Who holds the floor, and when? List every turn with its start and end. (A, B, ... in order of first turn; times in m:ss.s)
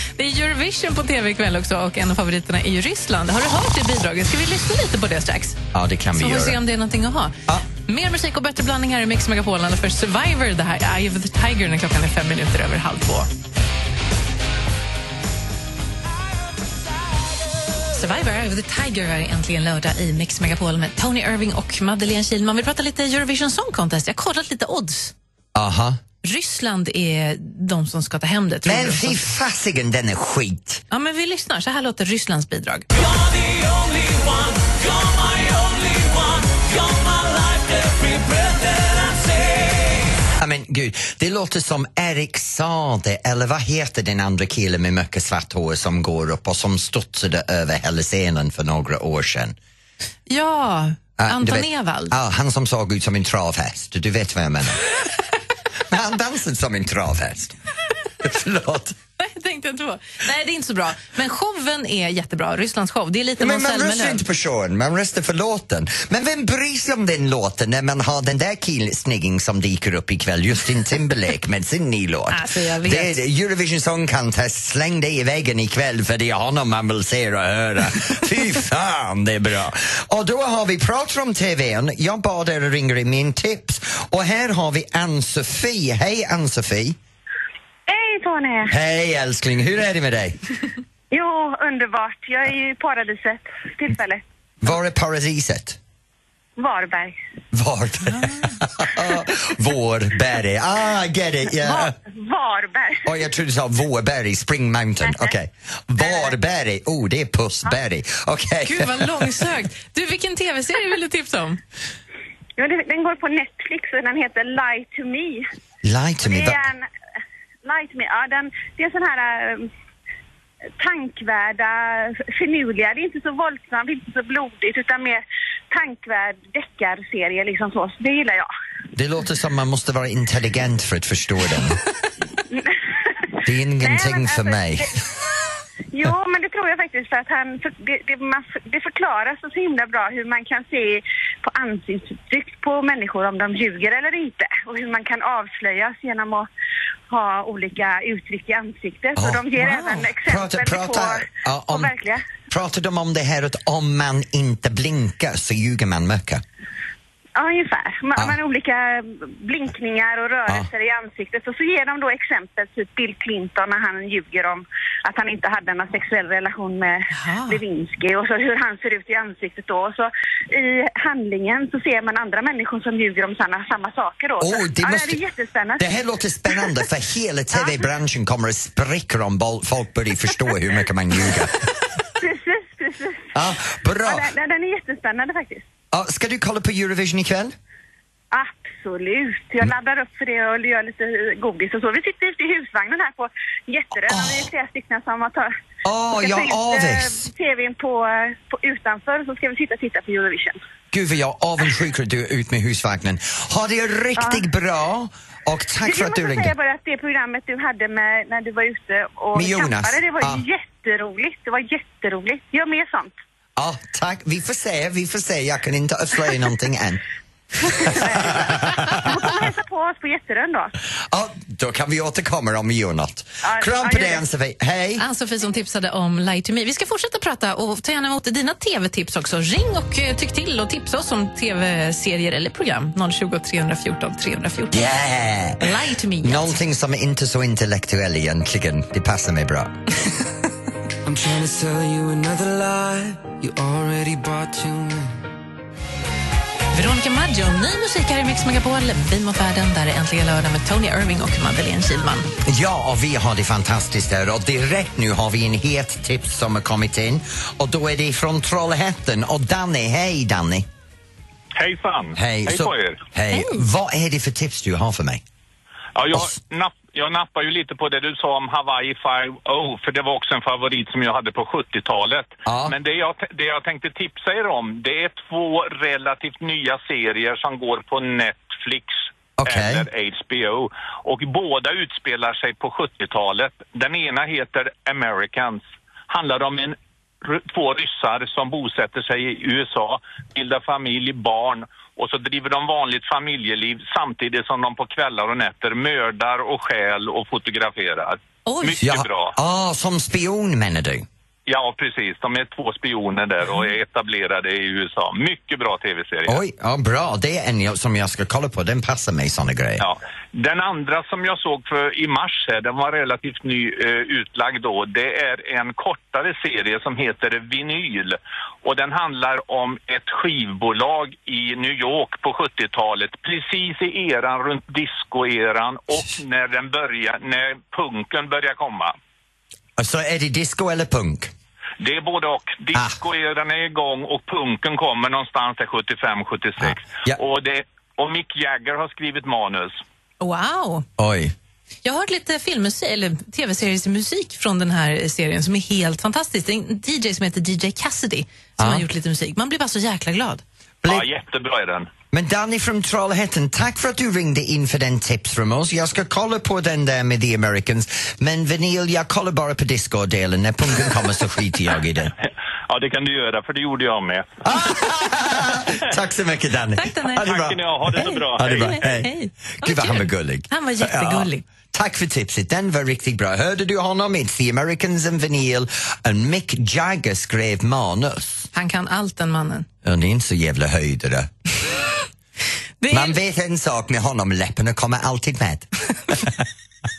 0:00.2-0:05.6 A
0:05.7-0:06.6 B
0:06.2-0:13.3 A
0:17.9-0:25.1 A
0:25.6-0:26.0 B
0:26.2-0:29.2 A
0:28.6-0:30.8 B
0:30.9-0:32.9 A
0:33.6-0:34.8 C
0:35.3-0:36.1 C
0:37.7-0:38.7 C
0:40.4-0:49.6 B
0:50.3-0:52.1 A
0:51.2-0:54.9 B
0:55.9-0:57.6 B
0:58.2-0:59.0 B
0:59.2-1:04.2 A
1:03.4-1:27.0 B
1:12.3-1:13.2 A
1:27.9-1:28.7 D
1:28.7-1:30.4 B
1:31.1-1:34.2 D
1:34.6-1:35.8 B
1:36.6-1:37.2 D
1:37.5-1:42.0 B
1:41.6-1:43.1 D
1:43.0-1:49.3 B
1:45.0-1:45.3 D
1:46.0-1:46.3 D
1:48.6-1:51.6 A
1:52.6-1:55.4 D
1:55.8-1:56.7 B
1:56.2-1:56.9 D
1:57.6-1:59.7 D
2:00.8-2:08.5 D
2:09.0-2:11.8 B
2:13.4-2:15.0 B
2:13.8-2:14.9 D
2:15.9-2:26.5 D
2:27.1-2:32.2 D
2:29.2-2:32.0 B
2:32.5-2:36.4 B
2:37.4-2:55.9 D
2:47.1-2:47.6 A
2:54.4-2:55.2 B
2:55.8-3:01.6 B
2:56.5-2:56.8 D
2:57.5-2:57.8 D
3:02.2-3:03.3 D
3:03.3-3:04.3 B
3:04.1-3:05.7 D
3:05.9-3:07.6 B
3:08.3-3:15.5 D
3:14.1-3:14.5 B
3:15.8-3:17.3 B
3:16.1-3:20.6 D
3:20.9-3:26.5 B
3:24.2-3:24.4 D
3:25.8-3:33.1 D
3:29.3-3:30.4 B
3:33.6-3:37.0 B
3:37.7-3:39.3 B
3:37.7-3:40.7 D
3:41.1-3:45.1 B
3:43.4-3:44.2 D
3:45.0-3:54.9 A
3:54.7-3:59.8 B
3:55.6-3:56.6 A
4:01.0-4:05.2 C
4:06.7-4:12.3 A
4:12.4-4:20.7 B
4:21.6-4:23.0 E
4:22.2-4:25.2 B
4:23.3-4:23.6 A
4:26.0-4:59.3 E
4:32.5-4:32.8 B
4:39.4-4:39.9 B
4:58.5-4:58.8 A
4:58.8-5:01.1 B
5:01.5-5:06.4 E
5:06.3-5:09.8 B
5:09.8-5:29.0 E
5:29.8-5:31.3 B
5:31.8-5:39.8 E
5:36.6-5:37.2 B
5:40.2-5:40.9 A
5:41.0-5:41.3 B
5:41.8-5:50.4 A
5:48.6-5:48.8 B
5:50.9-5:51.9 E
5:52.1-6:02.1 B
6:02.7-6:04.3 E
6:04.4-6:18.5 B
6:06.8-6:07.2 A
6:07.2-6:08.8 E
6:08.0-6:11.4 A
6:18.5-6:19.7 A
6:19.8-6:21.3 B
6:22.8-6:23.2 A
6:22.9-6:26.3 B